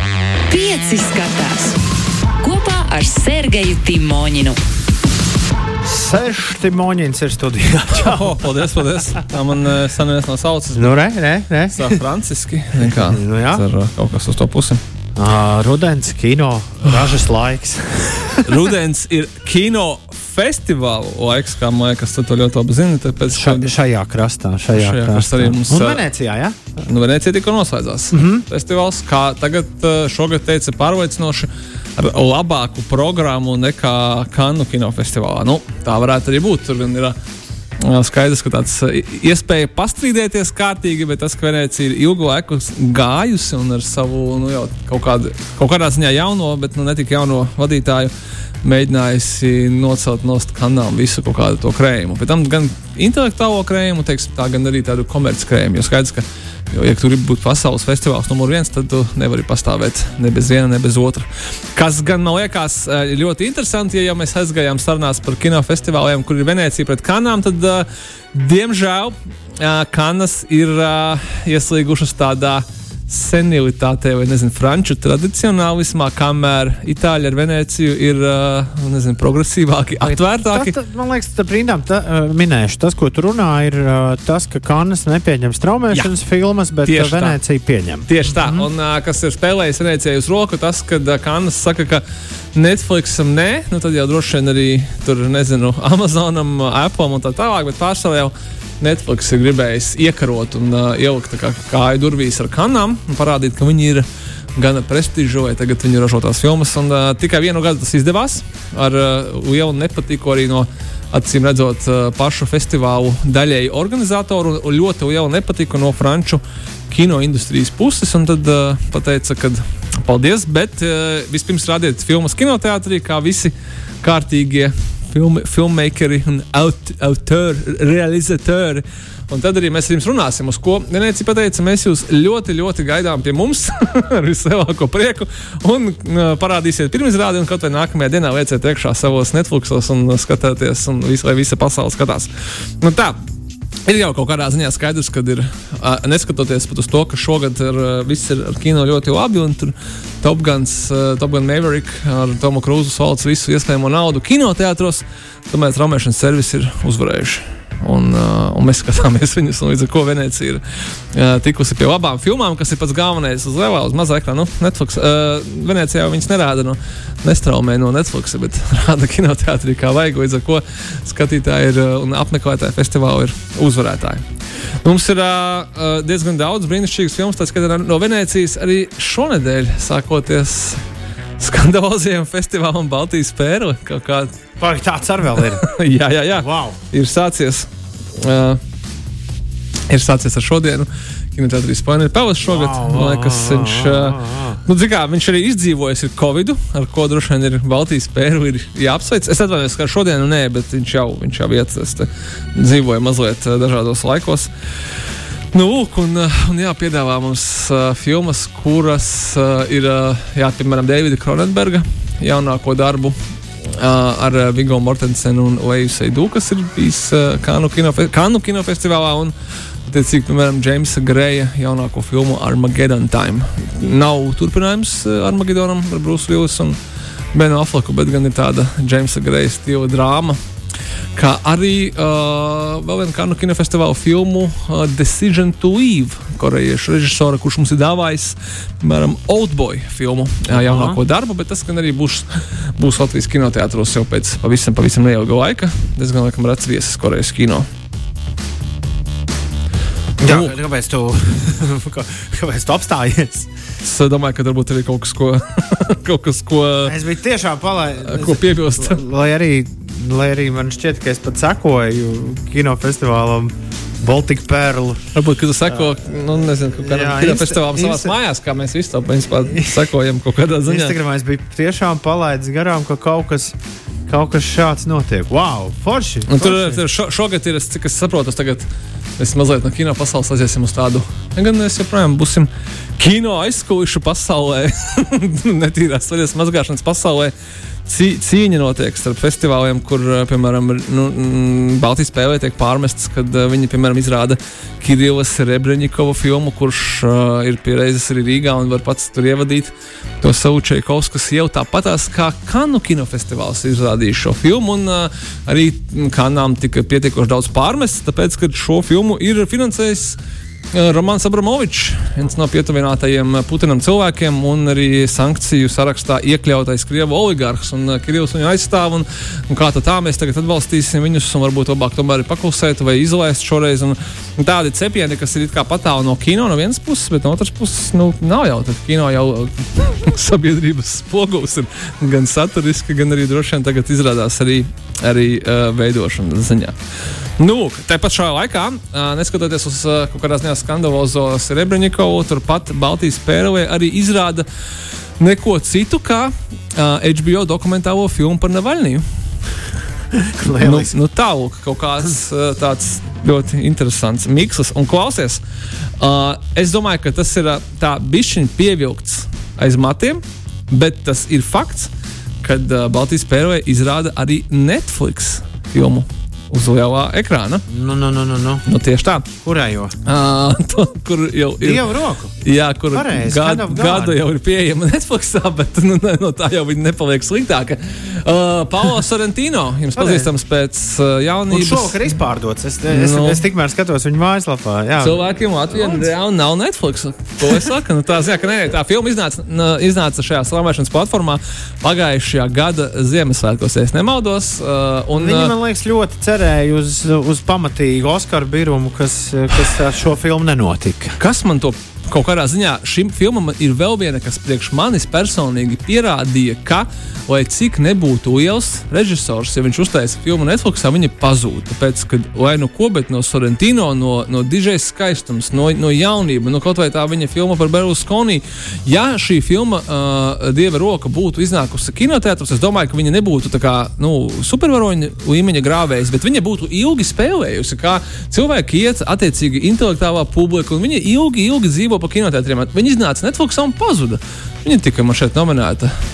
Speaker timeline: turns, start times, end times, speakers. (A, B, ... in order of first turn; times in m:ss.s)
0:00.5-0:01.8 A
0:02.4-0:04.6 A
0:05.8-0:08.6 B
0:07.9-0:11.0 C
0:10.7-0:12.0 B
0:11.7-0:14.8 C
0:12.8-0:13.6 B
0:15.2-0:18.6 B
0:18.4-0:23.7 C
0:23.3-0:26.6 B
0:24.7-0:26.0 C
0:26.8-0:37.2 C
0:28.1-0:28.4 B
0:37.8-0:48.1 C
0:48.6-1:20.8 C
1:20.0-1:28.7 B
1:26.8-1:27.4 C
1:28.1-1:32.0 C
1:32.5-2:22.3 C
2:22.8-2:23.2 C
2:23.8-2:54.2 C
2:54.8-3:00.8 C
3:01.4-3:04.3 C
3:04.6-3:05.7 B
3:05.4-3:08.6 C
3:06.4-3:06.8 B
3:09.9-3:24.5 C
3:12.4-3:14.6 B
3:25.5-3:33.2 C
3:33.7-3:39.3 C
3:39.9-3:46.8 C
3:47.3-3:50.4 C
3:51.1-4:07.7 C
4:00.5-4:01.0 B
4:10.2-4:13.5 B
4:10.2-4:10.5 C
4:13.8-4:17.0 C
4:16.8-4:25.0 B
4:18.0-4:19.0 C
4:25.1-4:31.0 C
4:26.8-4:28.1 B
4:29.4-4:29.8 B
4:30.6-4:36.8 B
4:36.3-4:38.7 C
4:39.2-4:47.3 C
4:47.8-5:10.2 C
5:10.7-5:36.8 C
5:37.4-5:44.4 C
5:45.2-5:49.0 C
5:50.1-5:51.0 B
5:50.5-5:55.4 C
5:56.0-6:01.9 C
6:02.4-6:07.6 C
6:07.7-6:08.6 B
6:08.6-6:09.3 C
6:09.4-6:10.0 B
6:10.0-6:11.8 C
6:11.6-6:12.3 B
6:12.4-6:22.1 C
6:12.9-6:14.2 B
6:20.0-6:20.3 B
6:21.5-6:25.3 B
6:22.9-6:23.4 C
6:25.0-6:35.5 C
6:35.1-6:41.2 B
6:41.2-7:15.9 C